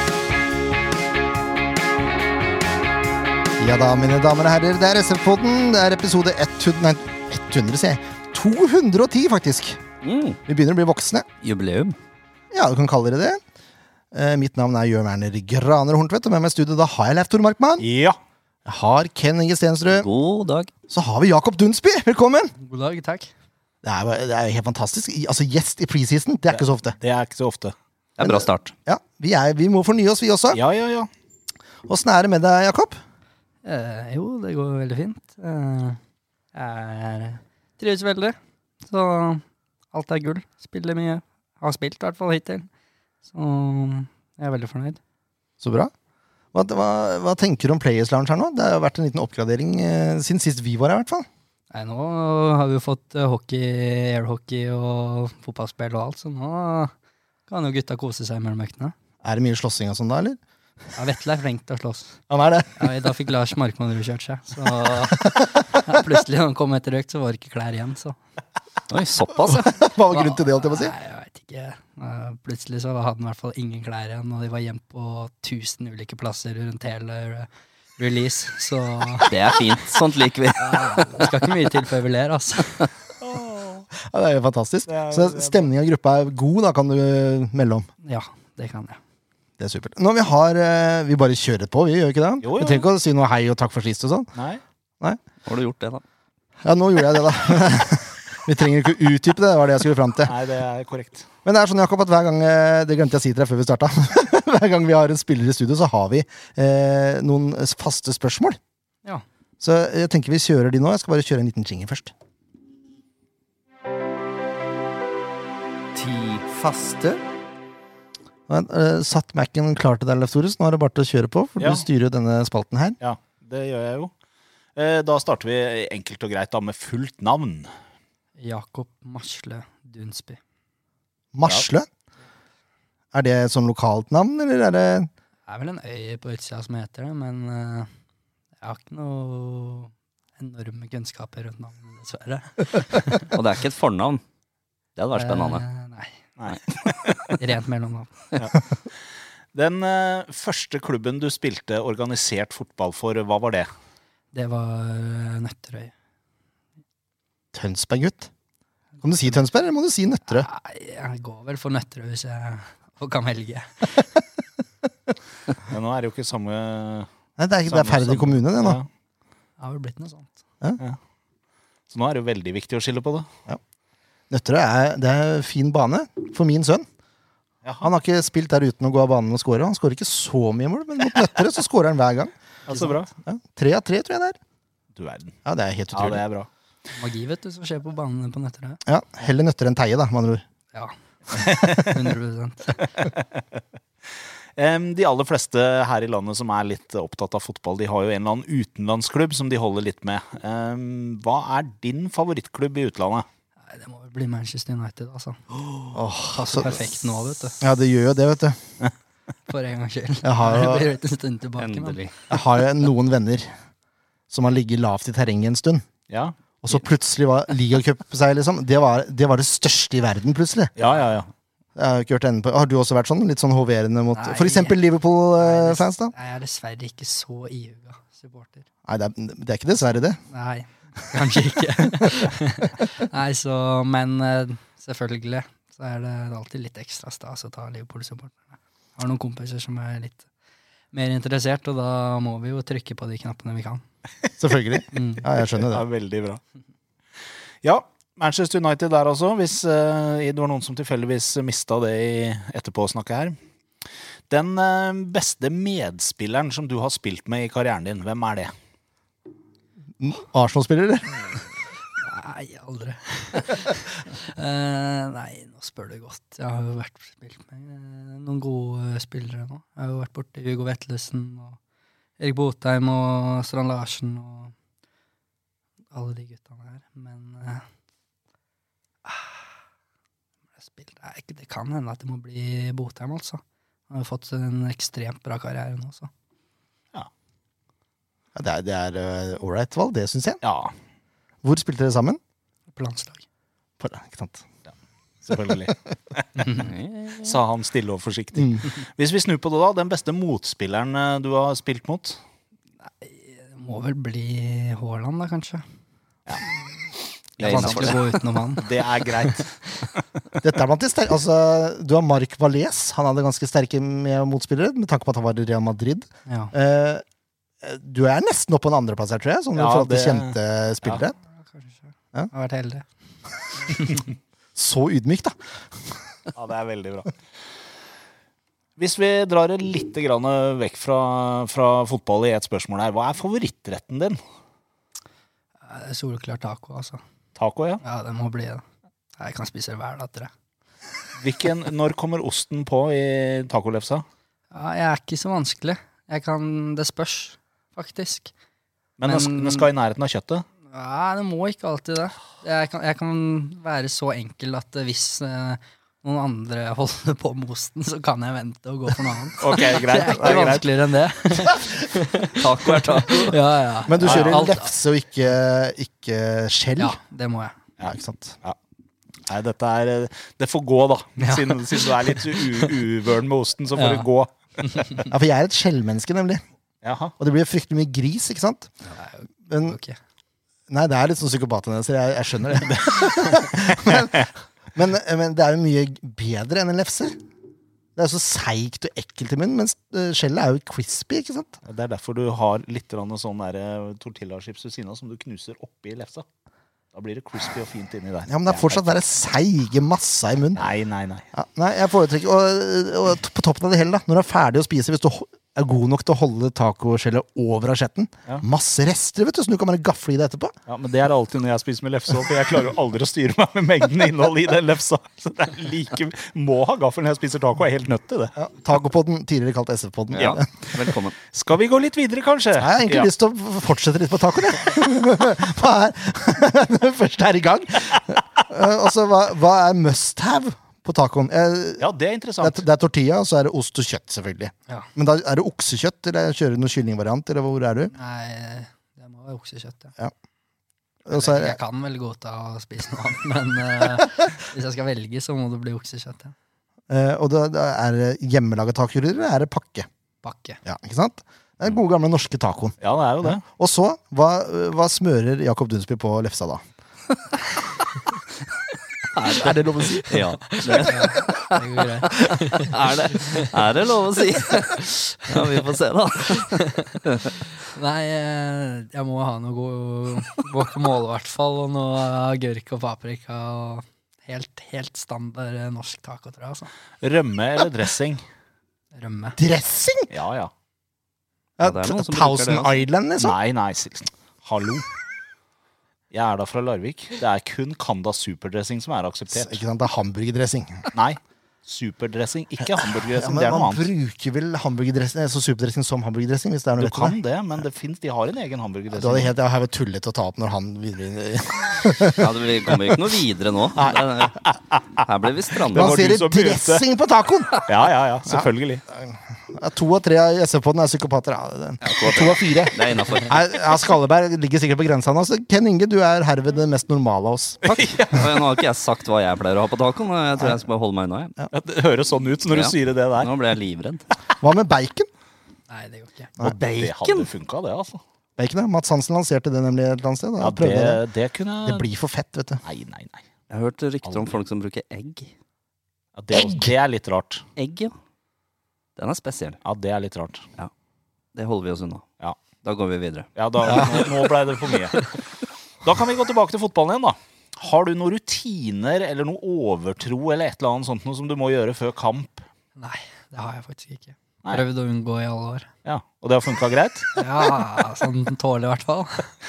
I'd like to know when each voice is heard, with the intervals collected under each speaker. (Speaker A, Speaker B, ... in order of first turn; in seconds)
Speaker A: 3.6-9.8, 10.5-11.2, 12.5-13.4, 14.1-17.9, 18.6-20.1, 20.9-22.5, 23.8-27.0, 28.2-30.6, 31.9-33.0, 45.6-45.9, 46.5-51.3, 59.2-60.4, 62.3-62.9, 69.5-70.9, 83.9-87.9, 89.6-94.3, 96.6-100.3, 101.4-108.6, 109.6-112.1, 116.0-117.2, 118.5-123.0, 131.3-131.9, 133.1-135.1, 157.5-158.3, 159.0-160.5, 167.4-168.8, 174.3-176.8, 177.8-184.4, 185.4-186.2, 188.8-190.4, 205.9-206.8, 207.6-208.6, 210.2-210.9, 212.3-213.5, 214.3-215.9, 216.6-220.7, 221.7-226.1, 228.9-230.2, 231.8-232.3, 244.4-245.8, 260.0-261.3, 288.3-290.4, 291.4-292.2, 293.8-294.4, 298.3-298.6, 307.5-307.9, 310.4-317.0, 317.6-321.1, 324.5-326.0, 363.8-367.0, 367.8-368.4, 375.1-376.4, 377.2-378.7, 379.5-379.8, 380.7-387.2, 387.9-391.6, 398.3-400.7, 401.3-410.5, 418.4-420.7, 422.6-431.9, 432.4-437.9, 441.0-441.6, 446.9-449.9, 450.6-456.6, 459.2-460.2, 479.4-480.1, 481.6-483.4, 489.3-490.9, 492.6-497.2, 498.9-503.0, 505.7-507.6, 508.3-517.6, 524.4-525.1, 528.4-531.0, 531.6-532.6
Speaker B: 10.0-10.4, 11.4-12.0, 19.9-20.7, 28.2-28.7, 68.9-69.7, 79.3-81.3, 95.4-96.0, 143.3-144.2, 144.9-145.6, 211.6-212.1, 296.5-297.4, 307.4-308.0, 362.2-363.4, 420.1-421.1, 460.1-461.6, 462.1-467.3, 481.6-482.8, 502.1-504.5, 505.0-506.0, 511.8-513.4, 517.6-521.3, 522.5-524.0, 526.4-527.3, 533.5-535.3, 537.6-537.9, 539.0-539.6, 541.3-542.0, 542.6-544.1
Speaker C: 17.8-18.2, 26.5-27.7, 30.5-31.1, 83.2-83.9, 84.9-85.7, 92.4-92.8, 94.3-94.6, 100.2-101.3, 121.6-121.8, 123.0-124.1, 124.8-127.7, 146.4-147.4, 148.3-148.6, 149.5-153.7, 165.7-167.1, 167.7-168.9, 171.9-173.3, 177.6-177.9, 182.7-183.1, 184.9-185.3, 185.9-186.5, 191.3-191.8, 193.0-193.4, 194.6-203.2, 216.1-216.3, 220.8-221.3, 245.6-246.4, 247.6-253.4, 254.3-258.5, 290.4-290.7, 295.2-296.5, 297.2-302.2, 308.6-309.5, 319.5-321.0, 326.3-327.1, 328.8-334.2, 337.4-337.8, 341.1-344.0, 349.0-350.4, 359.4-360.6, 364.0-364.3, 367.8-368.6, 369.2-375.1, 376.8-377.1, 382.7-383.1, 383.7-384.2, 391.6-396.3, 396.9-399.0, 400.5-401.3, 410.7-418.3, 421.3-423.1, 431.8-432.6, 452.8-453.4, 477.0-478.2, 480.1-480.5, 483.2-484.9, 486.1-489.6, 490.9-493.9, 496.8-499.3, 505.7-506.8, 507.6-508.8, 517.6-518.3, 521.5-523.3, 526.4-528.0, 530.4-531.8, 532.6-533.2, 534.0-534.3, 536.1-537.5, 539.6-540.4, 543.4-545.2, 545.8-552.5, 555.8-557.6
Speaker D: 22.6-23.3, 33.6-36.0, 36.5-42.7, 43.2-45.0, 51.7-56.9, 57.5-58.9, 61.0-62.2, 62.8-68.2, 69.8-79.3, 80.5-82.9, 88.0-89.0, 128.4-130.4, 135.5-137.9, 138.6-143.3, 145.1-146.2, 147.4-148.1, 154.3-155.9, 160.3-164.1, 169.6-170.3, 186.9-188.8, 190.7-192.8, 203.7-205.4, 206.3-207.6, 209.5-212.0, 224.1-224.8, 225.4-228.7, 230.3-240.3, 240.9-243.8, 244.9-245.2, 262.0-271.6, 272.2-274.5, 275.9-277.6, 279.0-279.4, 280.6-286.1, 292.8-293.2, 303.0-305.6, 307.4-309.4, 316.2-316.5, 321.4-322.9, 323.7-324.0, 335.6-337.0, 337.8-338.6, 339.2-340.3, 344.5-348.3, 349.0-349.7, 350.7-364.7, 366.8-367.5, 371.2-372.6, 373.7-374.1, 374.6-375.0, 378.9-380.0, 437.9-439.9, 441.1-446.3, 450.2-450.6, 459.2-463.5, 464.6-465.3, 466.5-467.0, 467.6-476.7, 478.9-479.4, 525.7-526.3, 552.8-555.7, 557.1-559.3